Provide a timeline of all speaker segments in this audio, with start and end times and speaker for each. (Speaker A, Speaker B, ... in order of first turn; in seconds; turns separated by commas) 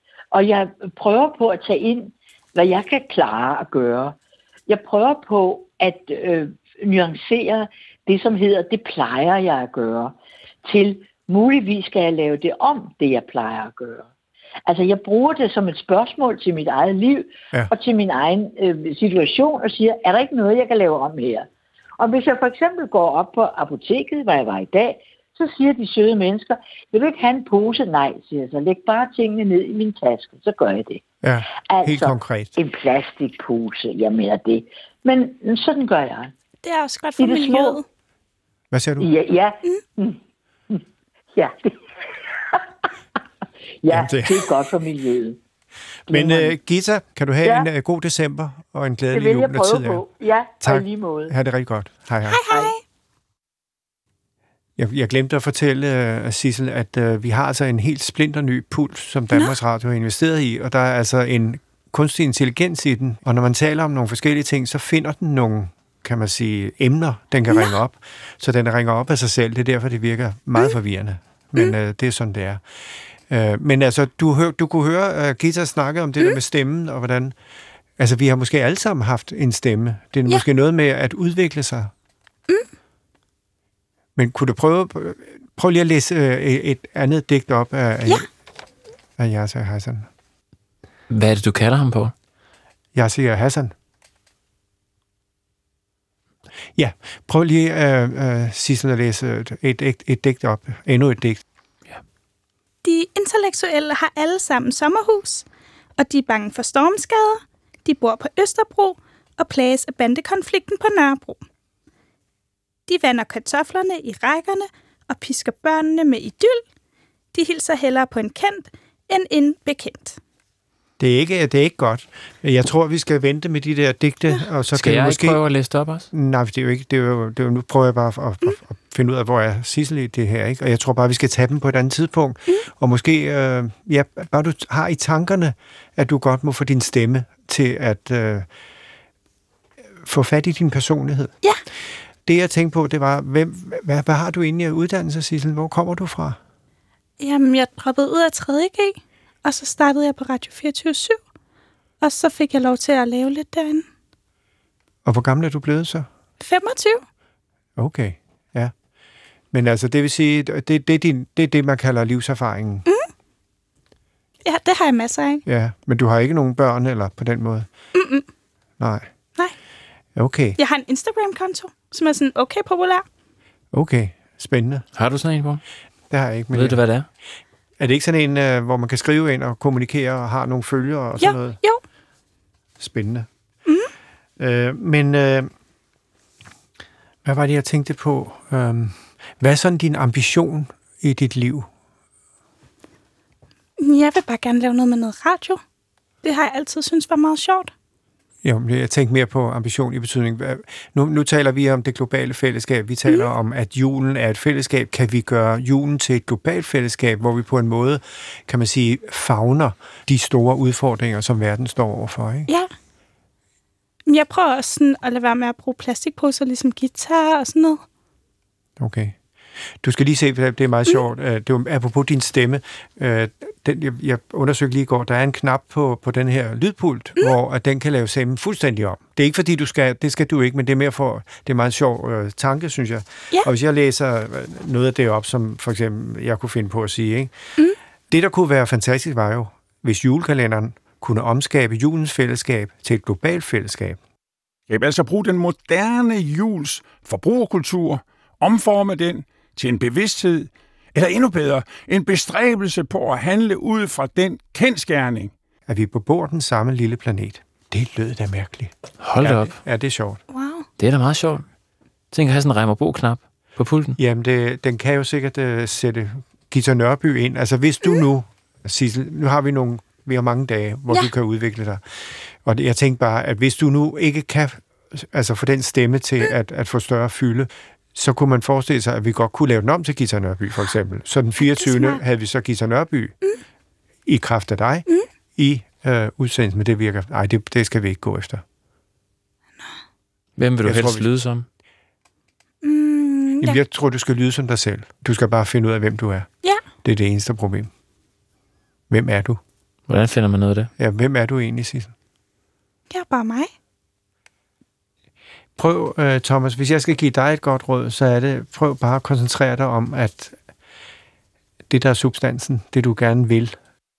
Speaker A: 0.3-4.2, Speaker A: 4.7-10.2, Speaker A: 10.7-14.1, Speaker A: 14.7-21.5, Speaker A: 22.0-31.0, Speaker B: 31.2-32.6, Speaker A: 31.7-36.3, Speaker C: 36.6-37.9, Speaker A: 37.2-37.8, Speaker B: 38.7-39.1, Speaker A: 39.0-41.8, Speaker A: 43.8-45.4, Speaker B: 43.9-44.6, Speaker A: 46.1-46.5, Speaker B: 46.1-50.0, Speaker A: 47.4-47.7, Speaker A: 49.1-51.4, Speaker B: 50.6-52.4, Speaker C: 52.3-52.8, Speaker B: 54.8-72.6, Speaker C: 67.5-67.8, Speaker B: 73.3-77.3, Speaker B: 78.0-81.9, Speaker B: 84.2-88.3, Speaker B: 89.2-90.1, Speaker D: 91.1-92.1, Speaker B: 93.0-93.7, Speaker B: 96.8-101.4, Speaker C: 102.8-105.5, Speaker C: 106.0-111.4, Speaker C: 112.9-116.6, Speaker C: 117.3-120.2, Speaker B: 121.0-125.4, Speaker D: 124.7-126.1, Speaker B: 126.1-138.5, Speaker B: 140.0-141.3, Speaker B: 142.3-146.4, Speaker C: 147.2-151.2, Speaker C: 152.0-153.8, Speaker B: 155.1-156.1, Speaker C: 156.4-157.0, Speaker B: 157.8-158.7, Speaker B: 159.5-162.9, Speaker C: 164.4-165.4, Speaker B: 165.5-167.7, Speaker C: 167.9-168.2, Speaker B: 168.8-169.1, Speaker B: 170.2-170.6, Speaker C: 170.6-173.1, Speaker B: 173.7-174.8, Speaker D: 174.9-175.6, Speaker B: 176.1-176.8, Speaker D: 176.5-177.1, Speaker B: 177.8-181.6, Speaker C: 181.2-181.8, Speaker B: 182.8-183.3, Speaker B: 184.4-185.5, Speaker B: 187.2-191.7, Speaker C: 193.8-195.6, Speaker C: 196.2-197.7, Speaker B: 198.4-212.5, Speaker C: 214.1-217.8, Speaker B: 218.8-219.2, Speaker B: 219.8-237.3, Speaker B: 238.1-244.0, Speaker E: 244.7-255.3, Speaker B: 255.7-260.2, Speaker D: 259.0-259.6, Speaker C: 260.3-260.7, Speaker D: 260.8-261.4, Speaker D: 262.1-264.0, Speaker B: 264.0-283.2, Speaker C: 281.4-282.0, Speaker B: 284.1-288.4, Speaker D: 290.4-291.5, Speaker B: 290.6-291.1, Speaker C: 292.6-293.6, Speaker B: 293.4-296.3, Speaker B: 296.8-297.7, Speaker B: 298.9-299.4, Speaker D: 299.9-300.7, Speaker B: 300.8-301.9, Speaker C: 302.9-303.5, Speaker B: 305.6-310.4, Speaker B: 311.7-313.6